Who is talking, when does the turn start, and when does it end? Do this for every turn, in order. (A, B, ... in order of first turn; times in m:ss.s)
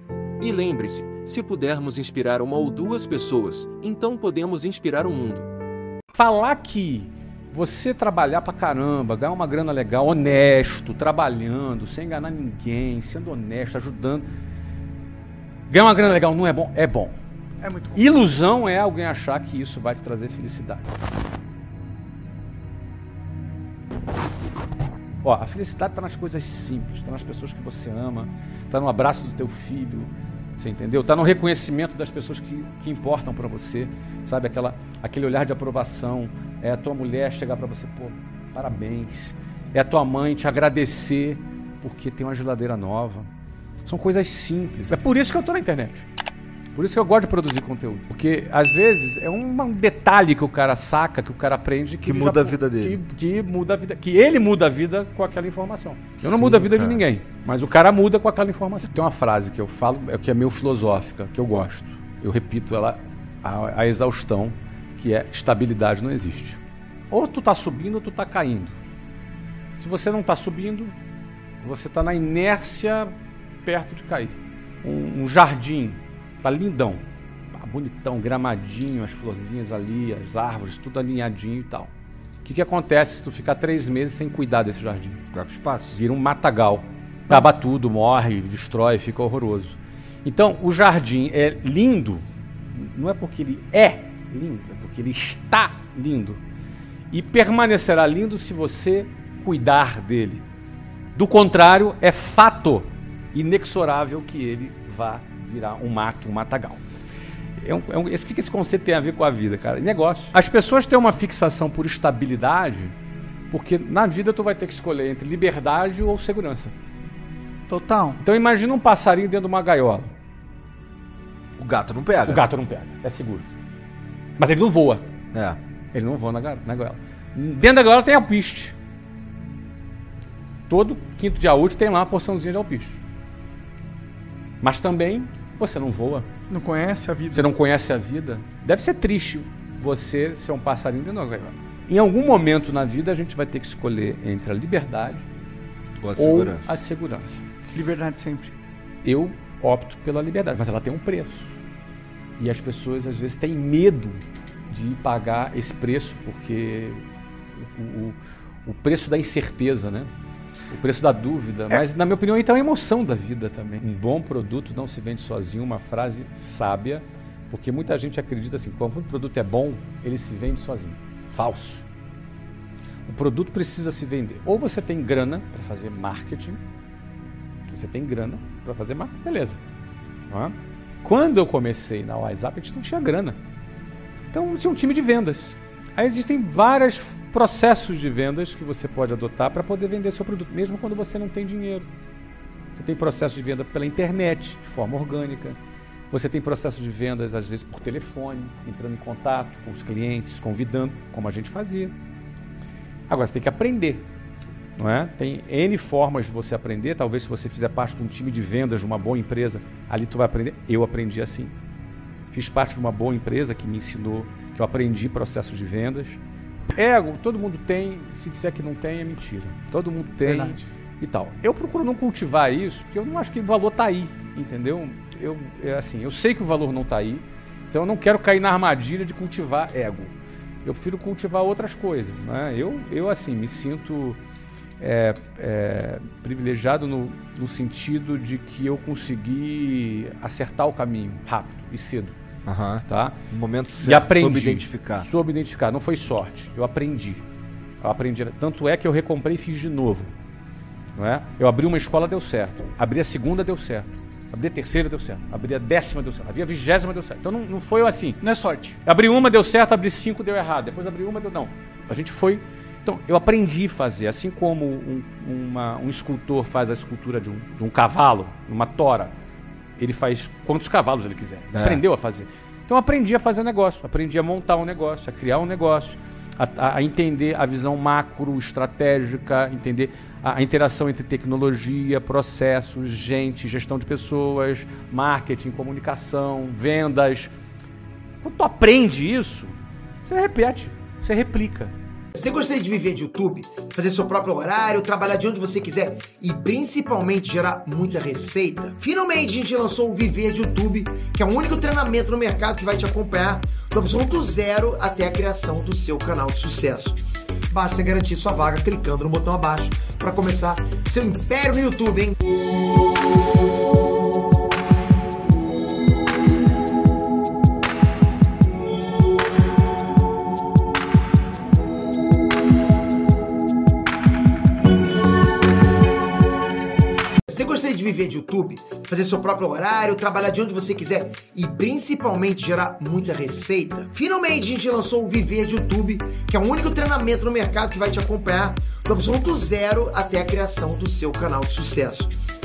0:00.4-0:05.5 A
0:06.1-0:14.3 B
0:15.7-0:17.2 B
0:17.6-0:18.0 C
0:17.9-0:20.9 B
0:25.2-0:43.3 B
0:43.8-0:46.0 B
0:46.7-1:08.8 B
0:52.0-0:53.0 D
0:56.2-0:57.0 D
1:09.8-1:11.0 B
1:11.6-1:13.1 B
1:13.6-1:21.9 B
1:22.4-1:25.2 B
1:25.3-1:26.0 D
1:25.9-1:36.4 B
1:37.1-1:40.4 B
1:41.1-1:46.8 B
1:47.6-1:52.9 B
1:53.5-1:56.7 B
1:57.7-1:58.2 C
1:58.2-2:00.1 B
2:01.6-2:02.5 D
2:02.2-2:03.5 B
2:04.4-2:05.0 B
2:05.3-2:05.6 D
2:05.9-2:08.7 B
2:10.7-2:13.0 B
2:14.6-2:16.3 B
2:16.5-2:17.5 C
2:17.3-2:25.3 B
2:26.0-2:26.8 D
2:26.2-2:27.4 B
2:27.7-2:28.5 C
2:29.0-2:31.6 B
2:32.4-2:37.0 B
2:37.6-2:40.1 B
2:40.7-2:51.8 B
2:53.0-2:56.6 B
2:57.7-2:59.6 B
3:00.3-3:03.4 B
3:04.3-3:11.9 B
3:12.7-3:15.6 B
3:16.1-3:21.9 B
3:23.1-3:24.1 B
3:24.8-3:31.5 B
3:32.3-3:36.2 B
3:36.7-3:50.1 B
3:40.2-3:40.6 C
3:50.6-3:54.2 B
3:54.8-4:02.1 B
4:02.4-4:05.1 D
4:02.8-4:03.2 B
4:03.8-4:07.2 B
4:07.8-4:10.1 B
4:11.0-4:18.2 B
4:18.2-4:18.8 C
4:18.8-4:29.1 B
4:29.8-4:47.3 B
4:31.5-4:31.8 D
4:48.2-4:51.7 B
4:52.1-5:12.2 E
5:27.3-5:42.1 E